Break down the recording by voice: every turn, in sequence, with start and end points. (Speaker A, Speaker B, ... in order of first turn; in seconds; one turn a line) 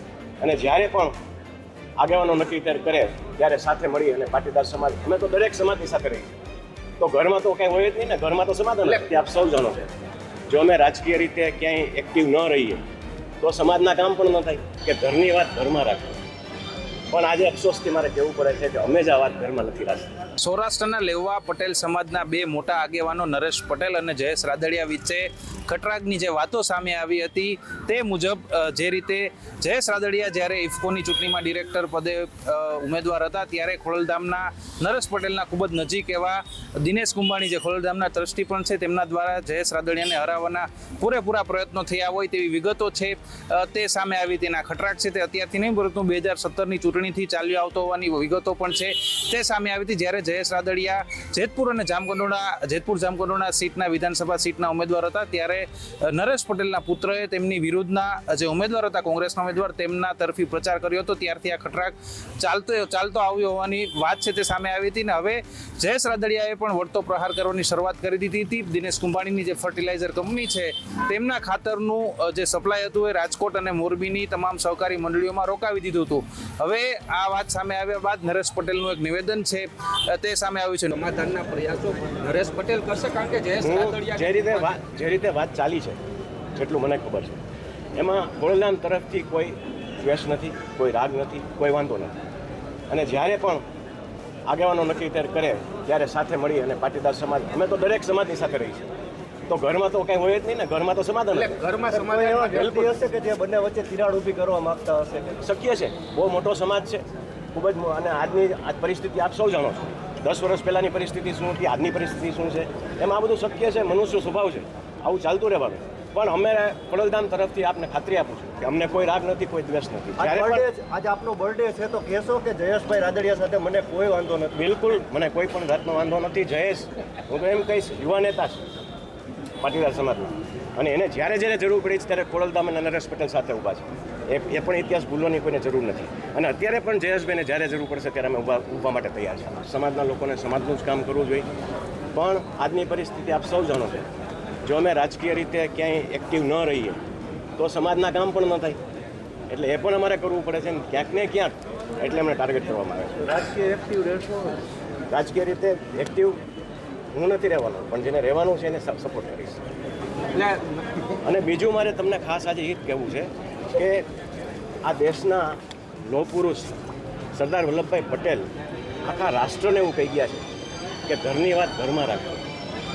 Speaker A: 0.4-1.1
Speaker A: 2.0-6.3
Speaker A: 7.0-9.9
Speaker A: 10.5-12.8
Speaker A: 13.4-16.2
Speaker A: 17.1-20.1
Speaker B: 20.4-81.2
Speaker C: 81.0-84.7
Speaker A: 83.6-86.0
Speaker A: 86.5-87.4
Speaker A: 88.0-92.2
Speaker A: 92.9-93.6
Speaker A: 94.5-98.9
Speaker A: 99.5-101.6
Speaker C: 101.5-102.5
Speaker D: 101.9-105.3
Speaker A: 102.5-102.9
Speaker A: 105.4-120.6
Speaker D: 120.2-124.5
Speaker A: 124.5-128.6
Speaker A: 129.6-141.5
Speaker A: 142.1-144.1
Speaker A: 144.6-147.0
Speaker A: 147.6-148.8
Speaker A: 149.5-153.3
Speaker D: 153.3-154.6
Speaker A: 155.1-156.4
Speaker A: 157.1-159.6
Speaker A: 161.2-164.1
Speaker A: 164.8-166.7
Speaker A: 167.3-168.5
Speaker A: 169.0-170.4
Speaker A: 171.1-172.3